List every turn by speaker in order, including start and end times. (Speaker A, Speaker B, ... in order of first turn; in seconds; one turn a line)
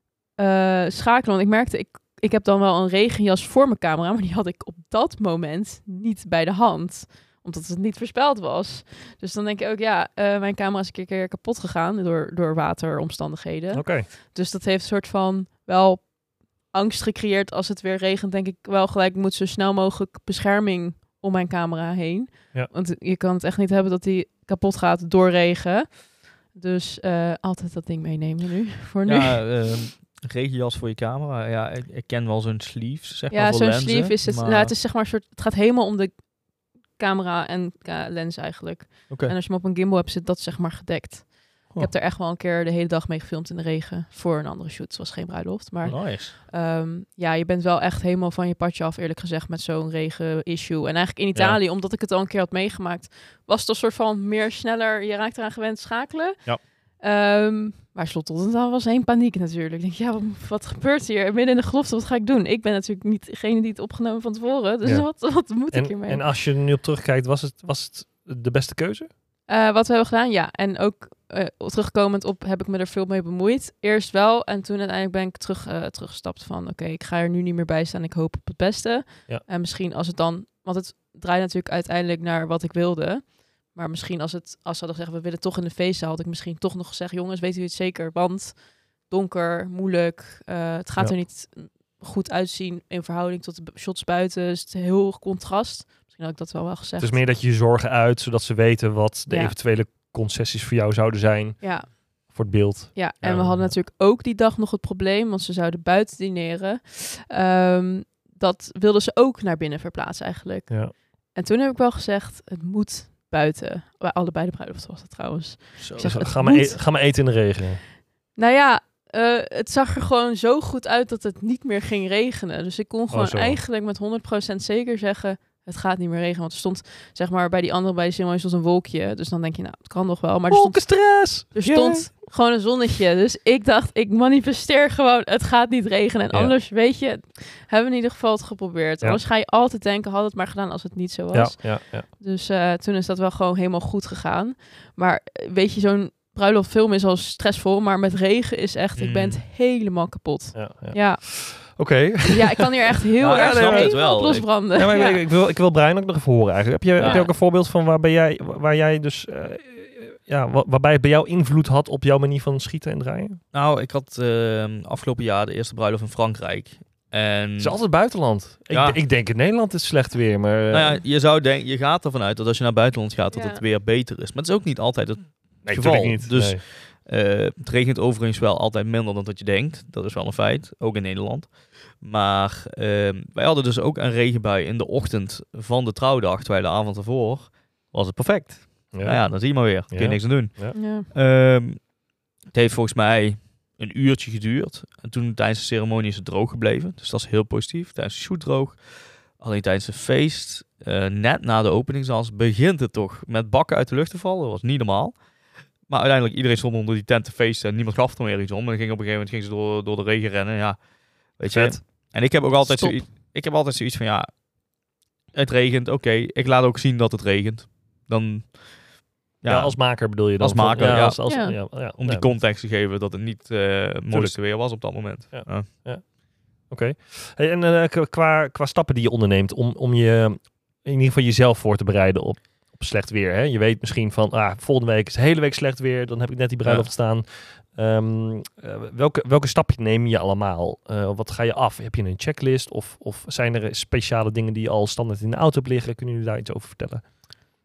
Speaker A: 0.3-29.4
Speaker B: 13.7-14.1
Speaker C: 29.1-34.7
Speaker A: 33.3-36.3
Speaker A: 36.8-66.2
Speaker C: 45.9-46.3
Speaker B: 64.8-69.1
Speaker A: 69.5-97.2
Speaker B: 97.0-103.8
Speaker A: 99.3-99.5
Speaker A: 101.6-102.4
Speaker A: 103.0-116.9
Speaker B: 110.7-111.0
Speaker C: 115.8-116.2
Speaker B: 116.0-117.8
Speaker A: 118.3-155.2
Speaker B: 123.1-123.6
Speaker B: 130.5-132.1
Speaker B: 141.3-142.1
Speaker C: 149.0-149.4
Speaker B: 150.5-152.7
Speaker B: 153.2-154.1
Speaker C: 153.2-154.5
Speaker B: 154.7-163.4
Speaker C: 157.0-157.3
Speaker A: 157.0-157.3
Speaker C: 163.5-168.2
Speaker B: 167.6-171.0
Speaker C: 168.7-169.0
Speaker C: 170.7-214.4
Speaker A: 173.3-173.6
Speaker B: 175.6-176.6
Speaker B: 188.9-190.8
Speaker A: 190.7-191.1
Speaker B: 211.5-211.8
Speaker A: 212.6-213.0
Speaker C: 215.3-225.7
Speaker B: 219.5-222.3
Speaker A: 221.2-221.6
Speaker B: 224.1-247.1
Speaker C: 236.6-236.9